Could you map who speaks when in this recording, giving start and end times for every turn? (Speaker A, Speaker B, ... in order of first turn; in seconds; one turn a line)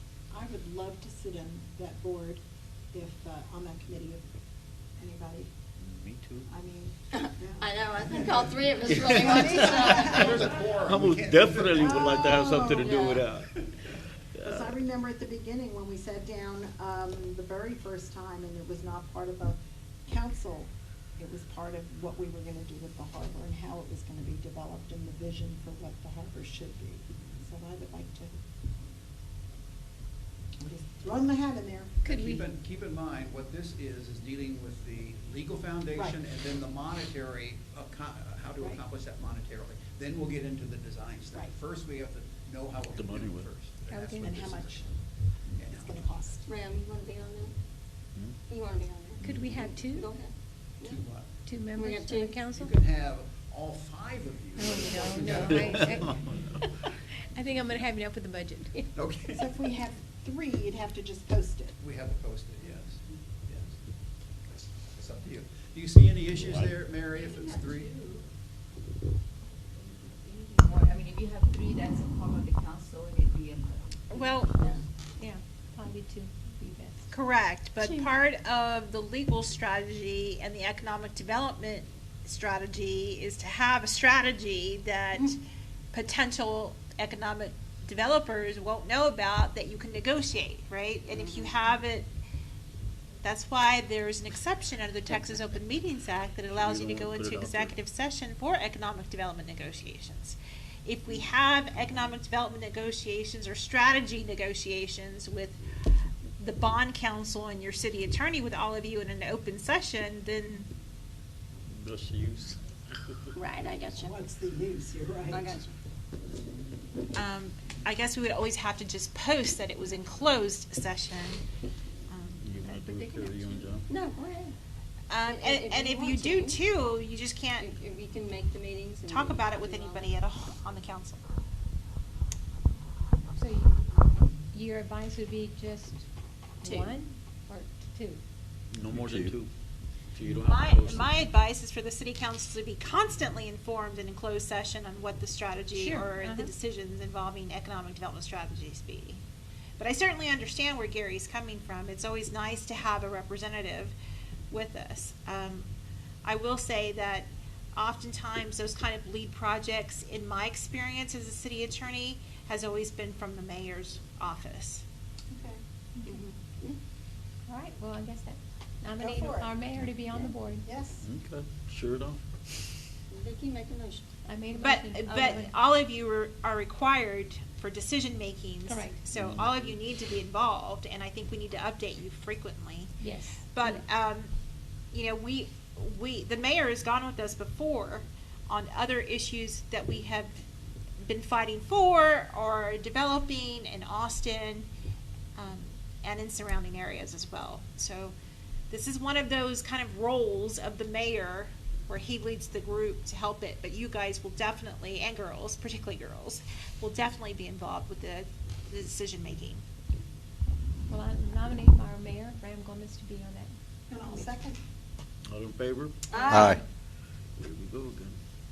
Speaker A: 0.3-2.4
Speaker A: 2.9-4.3
Speaker A: 5.0-5.5
Speaker B: 5.8-6.5
Speaker A: 6.5-10.5
Speaker C: 7.1-10.5
Speaker B: 8.9-9.7
Speaker D: 9.2-12.2
Speaker B: 10.4-13.5
Speaker A: 11.8-13.2
Speaker C: 12.7-13.2
Speaker B: 14.3-14.8
Speaker A: 14.4-28.4
Speaker A: 30.6-32.0
Speaker D: 32.0-44.9
Speaker E: 32.1-32.4
Speaker B: 42.9-43.5
Speaker E: 43.9-44.4
Speaker A: 44.2-45.0
Speaker D: 45.6-46.0
Speaker A: 45.7-46.5
Speaker C: 46.5-47.5
Speaker C: 48.5-51.0
Speaker E: 49.2-50.1
Speaker D: 50.8-51.3
Speaker E: 51.5-52.7
Speaker C: 51.8-52.6
Speaker D: 52.5-56.2
Speaker E: 54.6-56.1
Speaker B: 55.6-56.5
Speaker E: 57.3-58.9
Speaker D: 58.9-59.5
Speaker A: 59.3-61.8
Speaker D: 61.8-63.8
Speaker D: 64.5-68.0
Speaker F: 69.9-74.0
Speaker G: 74.1-74.5
Speaker E: 75.2-77.1
Speaker G: 77.1-85.4
Speaker C: 77.8-78.1
Speaker G: 85.9-92.1
Speaker C: 91.2-91.5
Speaker G: 93.2-105.6
Speaker B: 96.5-97.8
Speaker G: 106.4-110.7
Speaker B: 111.7-112.6
Speaker C: 113.4-114.1
Speaker A: 113.8-115.5
Speaker C: 115.3-115.7
Speaker G: 117.1-121.4
Speaker G: 122.1-123.5
Speaker B: 122.4-123.9
Speaker C: 123.9-124.5
Speaker G: 125.1-127.7
Speaker C: 125.3-126.6
Speaker C: 127.6-130.1
Speaker G: 129.1-131.2
Speaker E: 133.3-136.0
Speaker E: 136.6-138.2
Speaker C: 136.6-137.0
Speaker B: 138.7-139.5
Speaker B: 140.1-141.3
Speaker G: 140.4-149.2
Speaker E: 145.7-146.5
Speaker G: 149.8-153.9
Speaker G: 154.5-155.7
Speaker G: 156.2-164.8
Speaker A: 165.3-165.6
Speaker C: 166.1-166.8
Speaker E: 167.5-170.7
Speaker A: 169.0-169.5
Speaker A: 170.6-171.1
Speaker B: 171.0-172.5
Speaker C: 173.1-174.1
Speaker E: 174.3-175.5
Speaker G: 174.5-182.9
Speaker E: 178.7-179.0
Speaker B: 179.1-179.5
Speaker E: 183.0-183.8
Speaker G: 183.5-184.3
Speaker G: 184.9-190.3
Speaker G: 191.0-194.7
Speaker G: 195.4-198.1
Speaker G: 198.7-209.6
Speaker E: 210.9-214.3
Speaker A: 213.9-214.6
Speaker B: 215.3-216.6
Speaker C: 216.1-216.6
Speaker E: 216.2-216.6
Speaker B: 217.4-218.2